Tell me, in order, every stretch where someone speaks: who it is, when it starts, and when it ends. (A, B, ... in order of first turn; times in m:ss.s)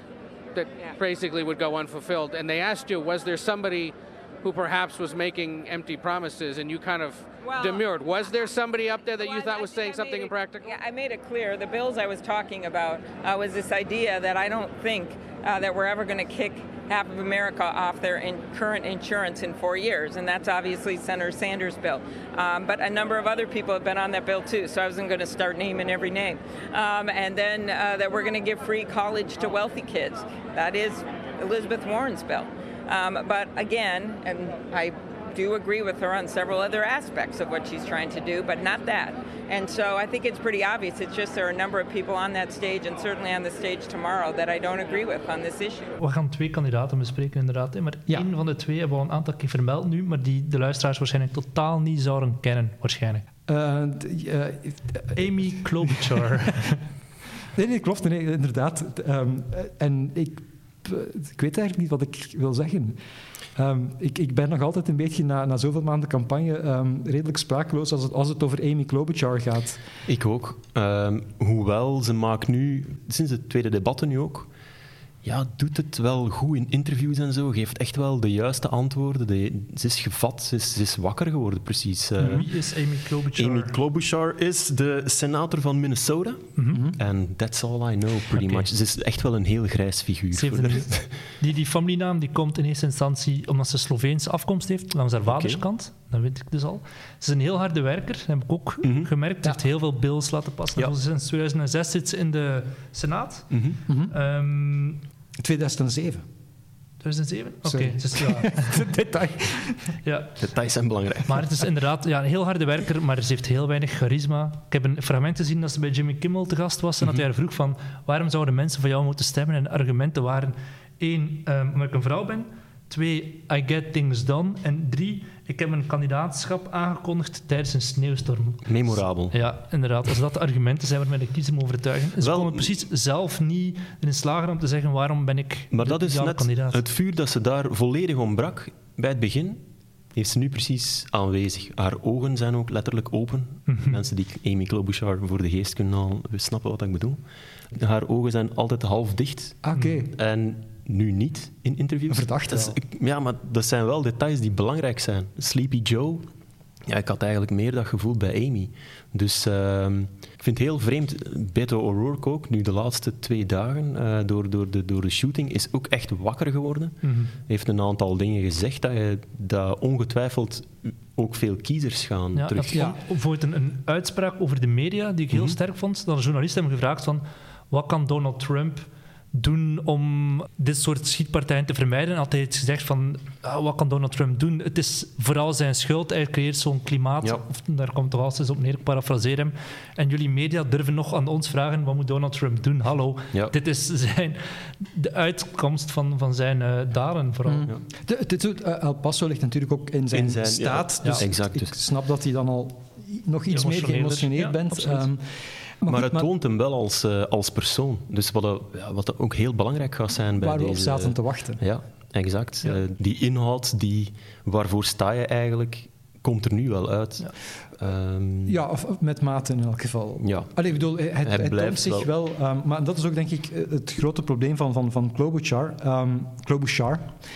0:00.5-0:10.8 A
0:07.4-0:08.6 B
0:09.2-0:45.9 B
0:46.0-0:53.2 C
0:53.5-0:56.2 D
0:55.1-0:56.8 C
0:57.5-1:03.0 D
1:03.6-1:09.8 D
1:10.1-1:14.5 E
1:15.2-1:22.6 E
1:22.2-1:22.5 D
1:22.2-1:23.7 C
1:23.3-1:31.2 E
1:26.7-1:27.0 D
1:28.3-1:28.7 C
1:30.3-1:43.6 C
1:35.2-1:35.6 E
1:38.8-1:39.1 E
1:43.5-1:43.8 E
1:43.9-1:44.1 D
1:44.1-1:45.0 C
1:45.4-1:46.2 D
1:47.0-1:48.8 C
1:47.6-1:49.9 D
1:50.0-1:50.4 C
1:50.4-1:51.5 E
1:51.3-2:16.8 C
2:08.6-2:09.4 E
2:12.2-2:12.7 E
2:15.7-2:19.6 E
2:20.1-2:27.2 E
2:23.7-2:24.0 C
2:27.7-2:36.3 E
2:29.6-2:30.1 D
2:29.8-2:30.0 C
2:32.1-2:32.8 D
2:36.9-2:52.9 E
2:47.0-2:47.3 C
2:52.4-3:17.7 C
2:52.7-2:53.0 D
2:55.3-2:55.6 E
3:17.5-3:25.2 D
3:20.1-3:21.7 E
3:23.5-3:25.0 C
3:25.8-3:26.3 D
3:25.8-3:38.6 E
3:30.4-3:31.6 D
3:38.4-3:47.1 D
3:40.2-3:42.1 E